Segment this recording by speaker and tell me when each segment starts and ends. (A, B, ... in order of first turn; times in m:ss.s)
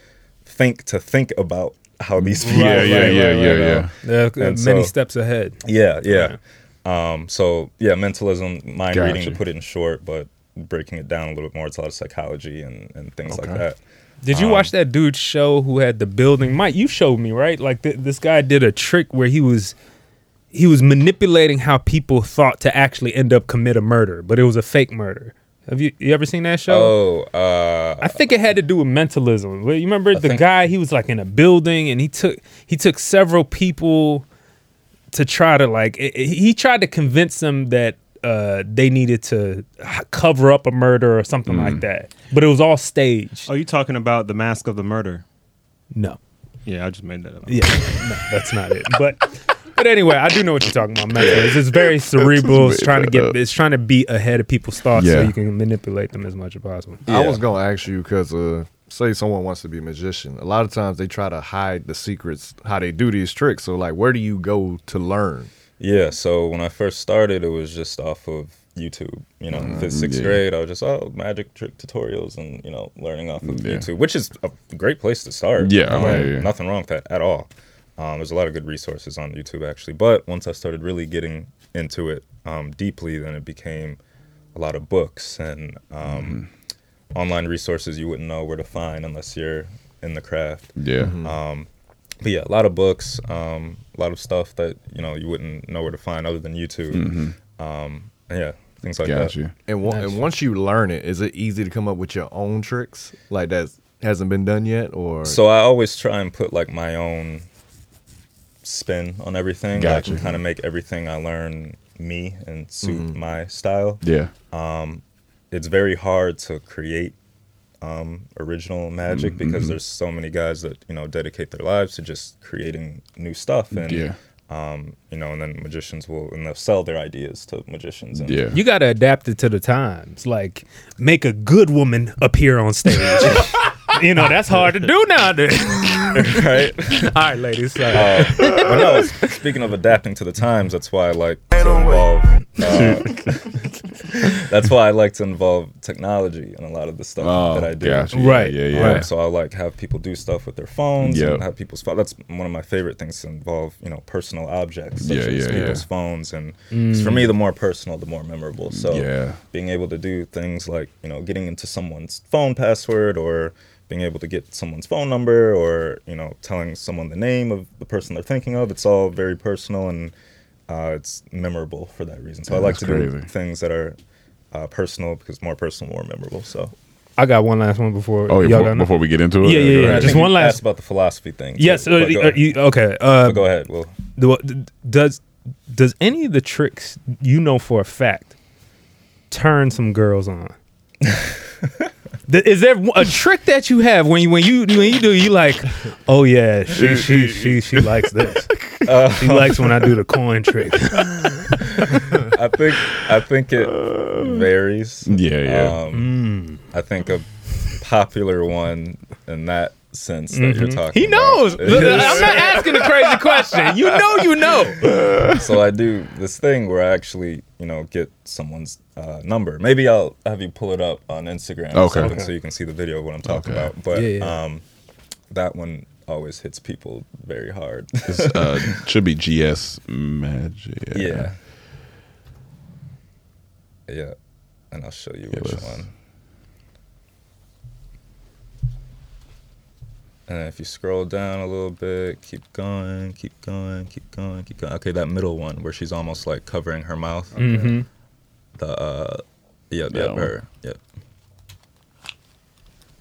0:00.4-0:04.9 A
0:02.2-0:03.9 B
0:02.4-0:06.4 C
0:05.6-0:13.8 A
0:08.9-0:09.4 B
0:13.3-0:13.6 B
0:14.2-0:19.8 C
0:14.3-0:14.7 A
0:20.5-0:26.9 C
0:26.7-0:28.2 A
0:28.0-0:34.2 C
0:30.1-0:30.4 A
0:35.1-0:43.5 C
0:41.5-0:41.8 B
0:43.4-0:45.2 D
0:45.9-0:46.2 C
0:46.6-0:47.9 D
0:47.5-0:57.0 C
0:51.2-0:53.4 B
0:54.9-0:55.3 B
0:57.1-0:57.4 A
0:57.1-1:05.5 E
1:05.8-1:24.0 A
1:09.5-1:10.4 B
1:13.4-1:13.9 B
1:15.6-1:16.5 B
1:24.5-1:26.4 A
1:26.0-1:26.5 B
1:27.1-1:31.7 A
1:30.8-1:31.2 B
1:31.0-1:31.3 E
1:32.2-1:39.4 A
1:36.9-1:37.4 B
1:39.0-1:39.5 B
1:39.7-1:45.4 E
1:39.8-1:40.2 C
1:45.2-1:47.4 A
1:48.6-1:57.1 A
1:49.7-1:50.4 B
1:52.8-1:53.1 E
1:54.0-1:54.3 B
1:57.8-2:08.4 A
1:59.1-1:59.8 B
2:03.7-2:04.2 B
2:08.2-2:08.6 B
2:08.5-2:18.7 C
2:16.2-2:17.1 A
2:17.9-2:23.5 A
2:22.6-2:23.3 B
2:24.2-2:50.1 A
2:27.2-2:29.1 B
2:28.1-2:29.0 C
2:31.0-2:31.4 B
2:35.0-2:35.8 B
2:36.7-2:37.3 C
2:38.7-2:39.4 B
2:50.7-2:54.0 A
2:52.5-2:53.3 B
2:54.5-2:56.7 A
2:57.2-3:00.6 C
2:58.3-3:00.3 B
2:59.8-3:02.5 A
3:01.6-3:03.5 C
3:03.2-3:03.9 A
3:04.2-3:08.3 C
3:09.3-3:10.5 C
3:12.3-3:18.5 C
3:16.7-3:18.0 B
3:18.5-3:18.9 B
3:18.8-3:19.8 A
3:19.2-3:22.0 C
3:22.2-3:26.2 A
3:23.7-3:24.4 B
3:25.1-3:25.8 B
3:25.9-3:26.6 C
3:26.7-3:27.3 A
3:27.8-3:32.6 A
3:30.3-3:34.9 C
3:31.7-3:33.6 B
3:34.8-3:35.4 B
3:35.3-3:44.6 A
3:41.7-3:42.2 B
3:42.0-3:42.3 C
3:43.2-3:43.7 B
3:43.9-3:44.4 C
3:45.3-3:48.8 A
3:48.0-3:51.3 B
3:50.9-3:51.4 A
3:53.9-3:54.1 A
3:54.7-3:55.9 A
3:55.3-3:55.8 B
4:00.3-4:07.7 A
4:07.4-4:07.8 C
4:08.6-4:10.8 A
4:09.9-4:10.3 B